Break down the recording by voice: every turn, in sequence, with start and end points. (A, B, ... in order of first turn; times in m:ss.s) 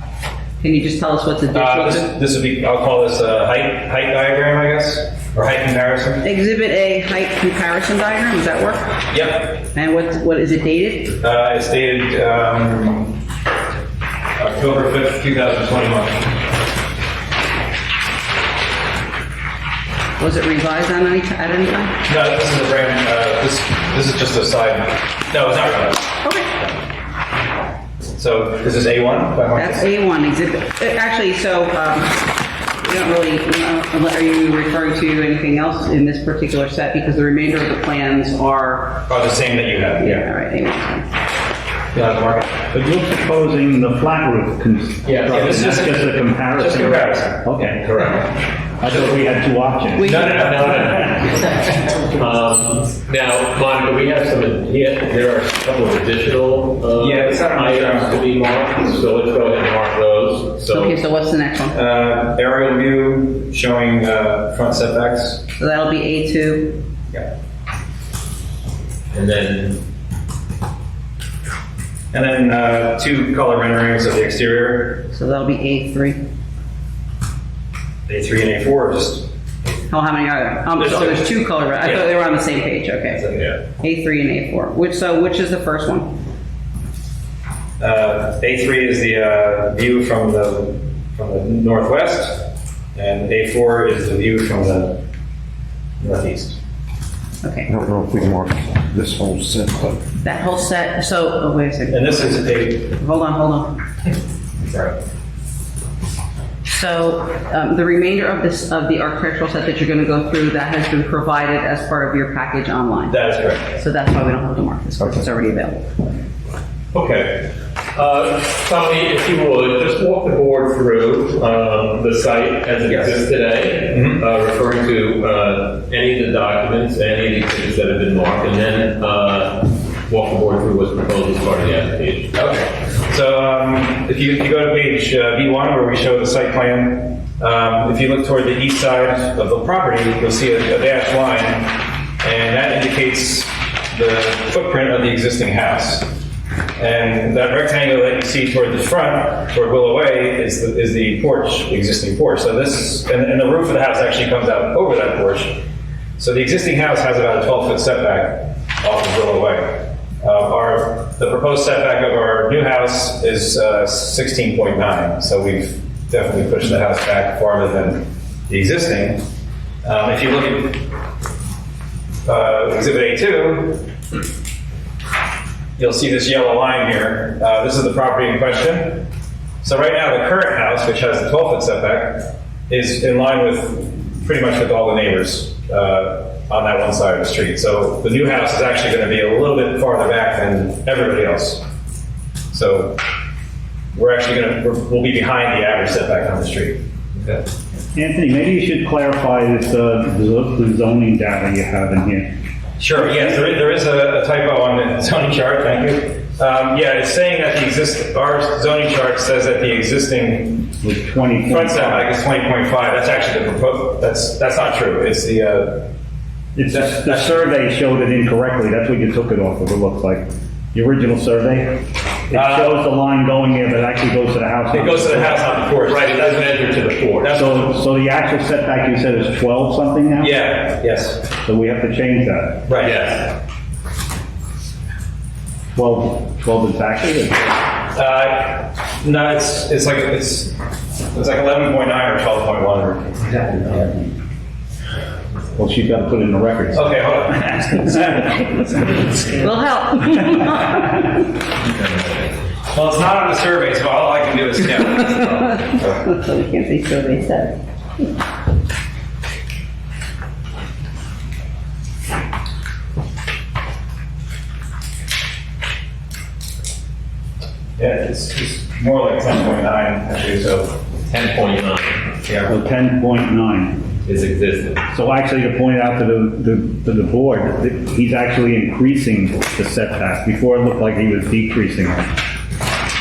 0:00.6-0:02.1 A
0:01.5-0:06.2 B
0:06.2-0:11.2 A
0:09.1-0:09.6 B
0:11.2-0:13.2 B
0:14.4-0:16.4 B
0:20.2-0:22.0 A
0:22.1-0:26.1 B
0:26.2-0:26.5 A
0:28.2-0:29.9 B
0:29.6-0:39.1 A
0:39.1-0:40.3 B
0:40.0-0:41.1 A
0:41.9-0:42.6 B
0:42.7-0:47.9 C
0:45.0-0:45.5 D
0:45.3-0:47.4 B
0:47.8-0:48.3 D
0:48.8-0:51.3 C
0:50.0-0:50.8 A
0:50.0-1:01.0 D
0:57.0-0:58.2 B
1:00.7-1:01.8 A
1:01.7-1:05.4 B
1:05.6-1:06.8 A
1:09.1-1:09.8 D
1:12.1-1:15.0 B
1:15.1-1:16.2 A
1:18.1-1:19.3 B
1:19.9-1:23.2 A
1:20.8-1:21.3 B
1:23.2-1:23.4 B
1:23.8-1:26.2 A
1:27.8-1:35.0 B
1:36.0-1:36.6 B
1:37.4-1:37.7 A
1:37.7-1:40.0 E
1:40.2-1:43.8 A
1:41.9-1:42.9 B
1:44.7-1:45.0 B
1:46.6-1:56.0 A
1:53.1-1:53.8 B
1:56.9-2:12.3 D
2:02.9-2:03.2 B
2:03.9-2:04.2 B
2:12.4-2:26.1 B
2:26.8-2:35.6 B
2:36.2-2:49.2 B
2:49.8-2:50.9 B
2:52.2-2:53.8 B
2:55.8-2:59.1 B
2:59.6-3:11.6 B
3:12.5-3:13.0 B
3:13.9-3:17.4 B
3:17.9-3:22.4 C
3:22.8-3:30.7 B
3:30.8-3:32.1 C
3:31.5-3:35.9 B
3:36.6-3:45.6 C
3:36.7-3:37.5 B
3:42.3-3:42.7 B
3:44.7-3:46.6 B
3:45.8-3:47.4 D
3:47.2-3:47.7 B
3:47.3-3:50.4 C
3:50.2-3:51.2 B
3:51.3-3:52.7 C
3:52.7-3:53.0 B
3:52.8-3:53.4 D
3:55.8-3:57.6 C
3:57.9-4:00.6 B
4:01.1-4:04.0 B
4:05.6-4:09.1 C
4:06.7-4:08.2 B
4:09.3-4:11.2 A
4:11.6-4:12.3 D
4:12.7-4:16.0 B
4:15.1-4:17.6 A
4:27.8-4:30.8 B
4:31.1-4:32.0 D
4:32.5-4:33.9 C
4:34.0-4:34.8 D
4:34.9-4:42.1 C